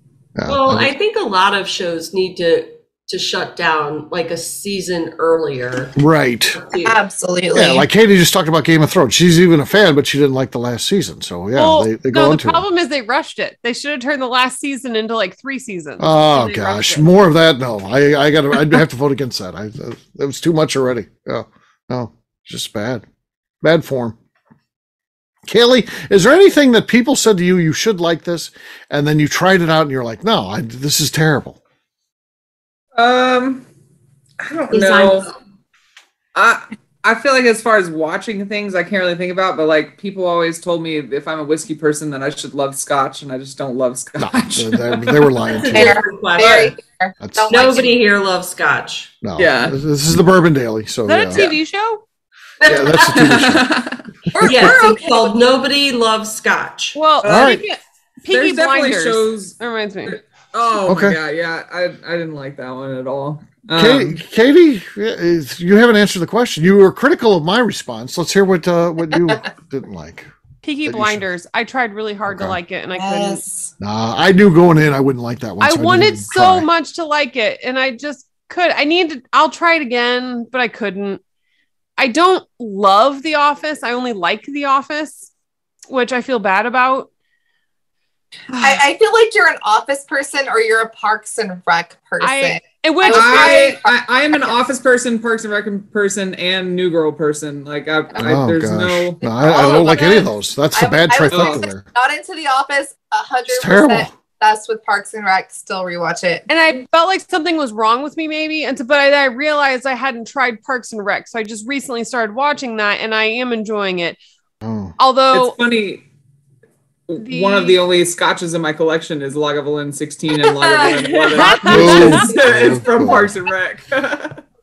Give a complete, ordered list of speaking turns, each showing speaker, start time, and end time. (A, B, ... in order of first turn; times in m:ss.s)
0:00.4-0:00.9 A
0:00.5-0:06.0 B
0:06.0-0:06.6 A
0:06.6-0:07.0 B
0:06.8-0:07.9 C
0:07.5-0:12.6 A
0:11.5-0:17.1 D
0:16.0-0:23.0 A
0:23.6-0:24.2 A
0:25.4-0:31.6 A
0:33.0-0:33.6 E
0:34.4-0:35.3 E
0:34.7-0:35.4 B
0:36.3-0:45.4 E
0:44.2-0:46.0 A
0:45.5-0:46.7 B
0:45.6-0:48.0 C
0:46.4-0:46.7 E
0:47.2-0:47.7 A
0:47.5-0:49.1 B
0:49.2-0:51.4 A
0:49.4-0:49.8 E
0:51.1-0:52.0 D
0:52.6-0:53.4 B
0:52.6-0:53.8 A
0:53.0-0:54.0 E
0:54.3-0:55.6 C
0:54.4-0:57.1 B
0:56.9-1:00.2 D
0:57.2-0:57.6 E
0:57.2-0:57.6 A
0:58.3-1:04.2 E
1:00.8-1:01.2 A
1:03.7-1:10.3 A
1:10.6-1:13.4 D
1:10.8-1:11.2 A
1:12.2-1:12.6 A
1:13.0-1:13.7 C
1:13.8-1:16.7 A
1:15.6-1:21.2 D
1:22.0-1:25.3 D
1:25.9-1:27.1 D
1:28.5-1:28.8 E
1:28.6-1:34.6 C
1:32.2-1:33.8 D
1:33.1-1:39.2 E
1:38.2-1:41.8 A
1:39.2-1:46.5 C
1:41.3-1:41.6 E
1:43.5-1:44.1 A
1:46.5-1:54.2 D
1:54.6-1:55.0 A
1:55.0-1:55.6 D
1:55.3-1:56.0 E
1:57.1-2:04.4 E
1:57.2-1:57.8 D
2:00.6-2:01.0 C
2:00.7-2:02.3 D
2:01.4-2:03.4 A